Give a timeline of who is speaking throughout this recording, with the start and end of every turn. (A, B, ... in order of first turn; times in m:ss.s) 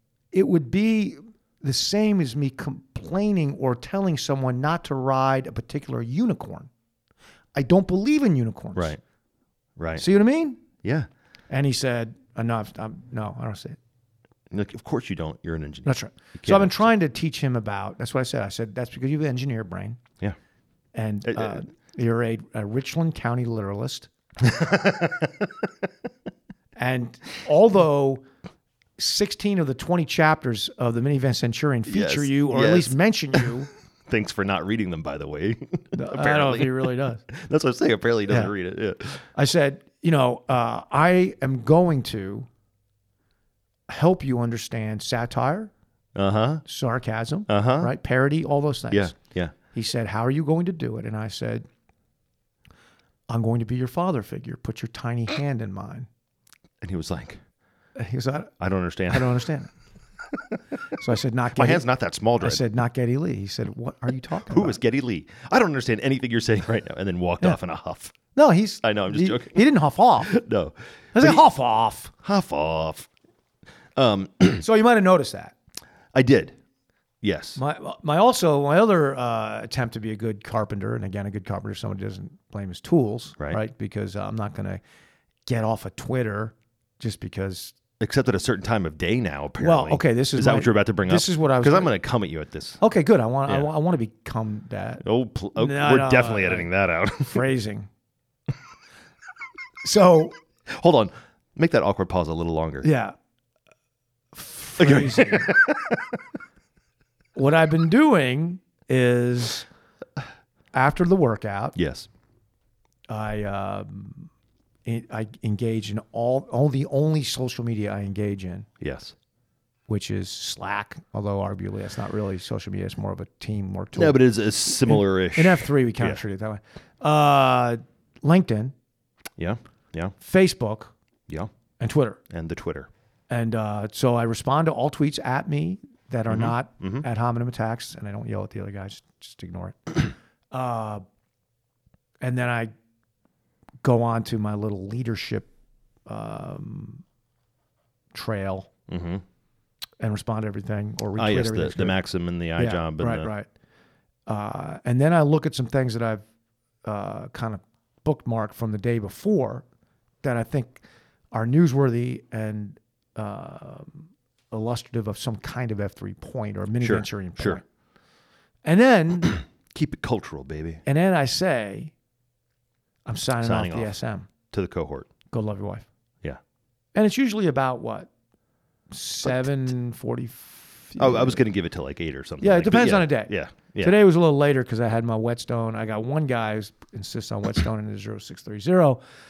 0:00.3-0:06.7 A
0:07.5-0:08.9 A
0:08.7-0:09.0 B
0:09.8-0:10.0 B
0:10.0-0:10.6 A
0:10.8-0:11.1 B
0:11.5-0:13.8 A
0:14.5-0:16.9 B
0:15.8-0:20.0 A
0:20.9-0:24.1 A
0:21.3-0:21.6 B
0:24.4-0:25.5 B
0:26.8-0:28.2 A
0:29.0-0:33.7 A
0:31.9-0:33.5 B
0:34.1-0:39.3 B
0:35.9-0:37.2 A
0:39.3-0:42.5 A
0:43.9-0:45.7 A
0:46.1-0:46.6 B
0:46.6-0:49.1 A
0:47.5-0:47.9 B
0:48.9-0:49.5 B
0:49.7-0:51.7 A
0:53.3-0:56.1 A
0:56.8-0:57.4 B
0:58.0-0:58.5 A
0:58.6-0:59.5 B
0:59.1-0:59.7 A
1:00.9-1:01.8 A
1:01.5-1:02.6 B
1:02.4-1:04.8 A
1:04.5-1:08.1 B
1:08.3-1:10.3 A
1:08.8-1:09.6 B
1:10.2-1:11.4 B
1:11.1-1:12.1 A
1:12.2-1:13.1 B
1:14.0-1:14.6 B
1:14.6-1:15.5 A
1:16.1-1:16.6 B
1:17.2-1:17.6 B
1:17.6-1:24.8 A
1:25.4-1:27.8 A
1:28.0-1:32.8 B
1:29.6-1:31.9 A
1:32.8-1:35.0 A
1:35.0-1:37.4 B
1:35.6-1:36.7 A
1:37.2-1:37.9 A
1:39.8-1:40.3 A
1:40.7-1:42.9 B
1:42.8-1:43.1 A
1:44.3-1:45.5 A
1:44.8-1:46.0 B
1:47.3-1:49.7 A
1:50.7-1:51.8 A
1:51.7-1:52.1 B
1:53.1-1:54.3 A
1:54.8-1:58.7 A
1:58.8-1:59.1 B
1:59.9-2:04.2 A
2:03.9-2:06.2 B
2:04.8-2:08.7 A
2:09.4-2:10.1 B
2:10.2-2:10.9 A
2:11.8-2:12.2 A
2:12.3-2:12.9 B
2:13.3-2:21.0 A
2:16.3-2:17.0 B
2:22.2-2:22.7 A
2:23.8-2:25.5 A
2:26.1-2:27.0 A
2:28.1-2:28.7 A
2:28.9-2:29.2 B
2:30.0-2:32.0 A
2:31.2-2:33.3 B
2:32.6-2:33.5 A
2:34.3-2:36.2 A
2:36.8-2:39.6 A
2:40.2-2:47.6 A
2:46.8-2:47.6 B
2:48.6-2:49.4 A
2:49.7-2:50.8 B
2:50.8-2:51.9 A
2:53.0-2:54.3 A
2:53.4-2:53.9 B
2:54.5-2:55.1 B
2:55.3-2:55.8 A
2:56.9-2:58.1 A
2:58.9-3:01.4 A
3:01.0-3:04.0 B
3:02.4-3:09.0 A